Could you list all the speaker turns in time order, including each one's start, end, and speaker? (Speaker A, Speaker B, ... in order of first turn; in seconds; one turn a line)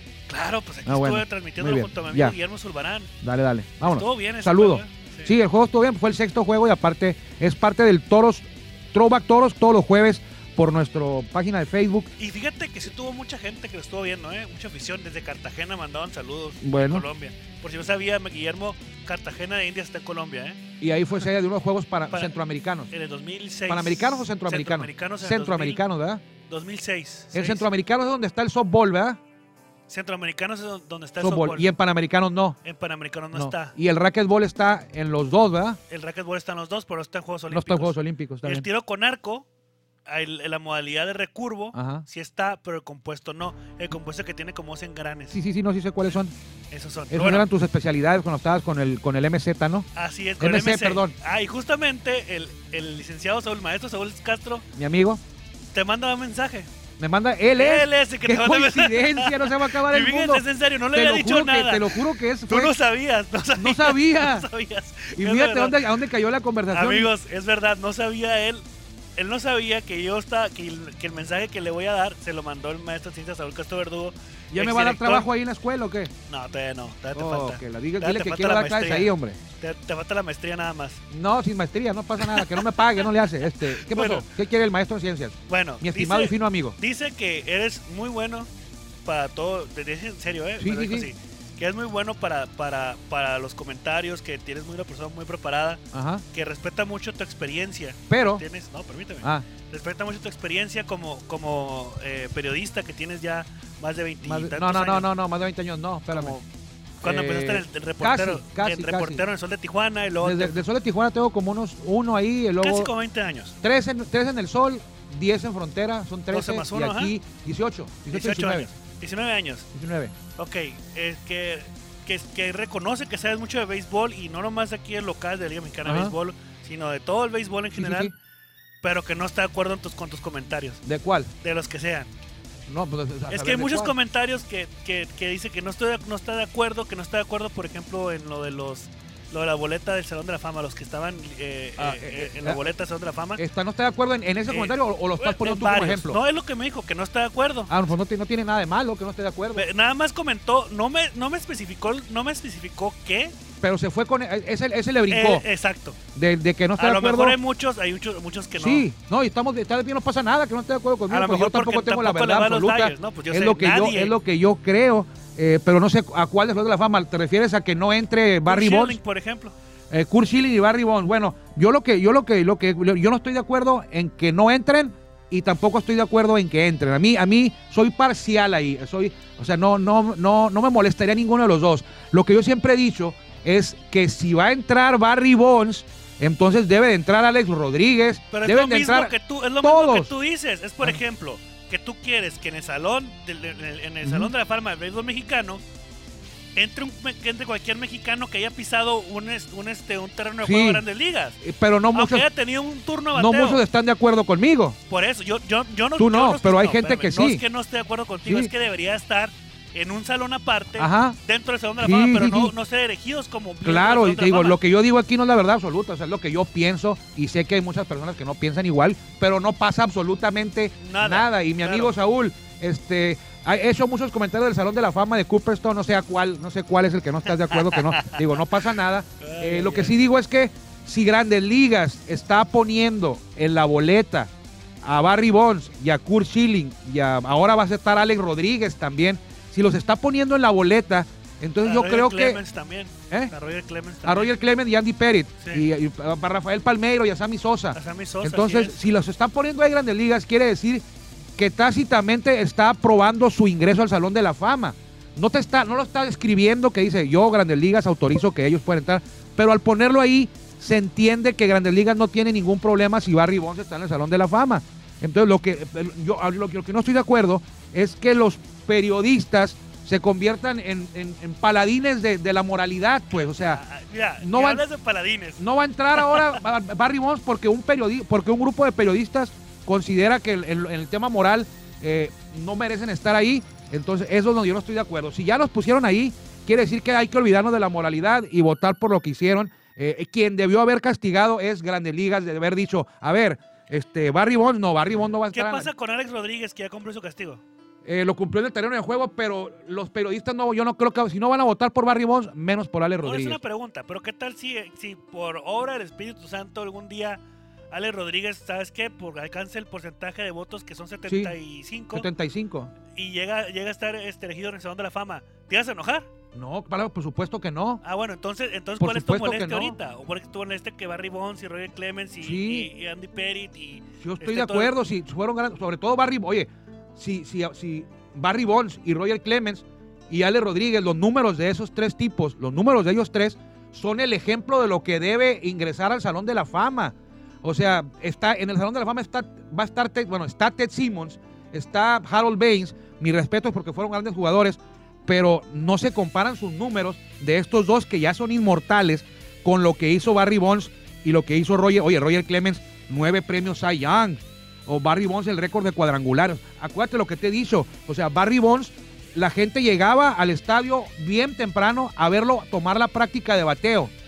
Speaker A: 0.3-3.1
Speaker B: 0.9-2.4
Speaker B: 3.2-12.1
Speaker A: 3.8-5.3
Speaker A: 12.2-20.6
Speaker B: 16.6-17.1
Speaker B: 20.8-22.9
Speaker A: 22.9-25.8
Speaker B: 23.7-26.2
Speaker A: 26.5-27.7
Speaker B: 27.3-29.2
Speaker A: 29.9-31.7
Speaker B: 31.2-32.6
Speaker A: 32.6-33.8
Speaker B: 33.3-35.8
Speaker A: 35.9-39.5
Speaker B: 37.5-38.7
Speaker A: 40.1-45.4
Speaker B: 41.7-42.0
Speaker B: 45.3-46.3
Speaker A: 46.7-47.5
Speaker B: 47.1-49.9
Speaker A: 50.0-54.7
Speaker B: 50.4-51.1
Speaker B: 54.8-55.2
Speaker A: 55.7-56.7
Speaker B: 57.0-62.7
Speaker A: 57.6-65.8
Speaker B: 63.6-64.5
Speaker B: 65.2-67.1
Speaker A: 66.7-68.7
Speaker A: 69.2-75.3
Speaker B: 74.5-76.1
Speaker A: 76.3-81.0
Speaker B: 77.2-79.4
Speaker B: 81.1-86.8
Speaker A: 82.2-83.1
Speaker A: 83.8-84.3
Speaker A: 85.5-88.5
Speaker A: 89.0-95.8
Speaker B: 90.6-91.1
Speaker B: 95.9-96.2
Speaker A: 96.3-105.1
Speaker B: 98.1-98.4
Speaker B: 104.2-106.4
Speaker A: 106.1-106.4
Speaker B: 107.0-109.2
Speaker A: 107.0-110.6
Speaker B: 110.2-112.9
Speaker A: 112.6-113.5
Speaker B: 113.6-118.7
Speaker A: 116.3-117.1
Speaker A: 118.1-119.7
Speaker B: 119.7-120.1
Speaker A: 120.4-128.1
Speaker B: 125.8-126.1
Speaker B: 127.8-128.1
Speaker A: 128.8-130.8
Speaker B: 130.8-131.3
Speaker A: 131.4-132.1
Speaker B: 132.7-133.9
Speaker A: 133.3-143.4
Speaker B: 141.8-142.7
Speaker B: 143.4-146.2
Speaker A: 144.5-147.9
Speaker B: 147.7-149.7
Speaker A: 149.5-153.3
Speaker B: 153.6-155.4
Speaker A: 155.1-156.0
Speaker B: 156.2-157.4
Speaker A: 156.8-158.9
Speaker B: 158.6-169.0
Speaker A: 161.1-164.1
Speaker A: 168.5-169.6
Speaker B: 169.9-190.1
Speaker A: 188.3-195.6
Speaker B: 194.0-194.3
Speaker A: 196.6-201.4
Speaker B: 200.4-200.8
Speaker B: 201.4-202.3
Speaker A: 201.9-203.6
Speaker B: 203.1-204.8
Speaker A: 204.9-214.6
Speaker B: 206.0-207.4
Speaker B: 208.3-208.5
Speaker B: 210.8-211.2
Speaker B: 211.8-212.5
Speaker B: 213.6-234.3
Speaker A: 220.8-221.9
Speaker A: 227.5-228.2
Speaker A: 229.2-230.0
Speaker B: 234.8-242.4
Speaker A: 241.6-244.3
Speaker B: 244.0-250.8
Speaker A: 245.4-245.7
Speaker A: 247.7-248.8
Speaker B: 251.4-273.6
Speaker A: 273.1-275.4
Speaker B: 274.2-274.6
Speaker B: 275.4-295.7
Speaker A: 275.9-276.4
Speaker A: 295.3-297.4
Speaker B: 297.9-303.4
Speaker A: 303.0-312.1
Speaker B: 311.1-311.4
Speaker B: 311.9-312.7
Speaker A: 312.9-316.1
Speaker B: 316.3-317.8
Speaker A: 317.8-324.7
Speaker B: 318.8-319.8
Speaker B: 322.2-322.7
Speaker B: 324.0-363.9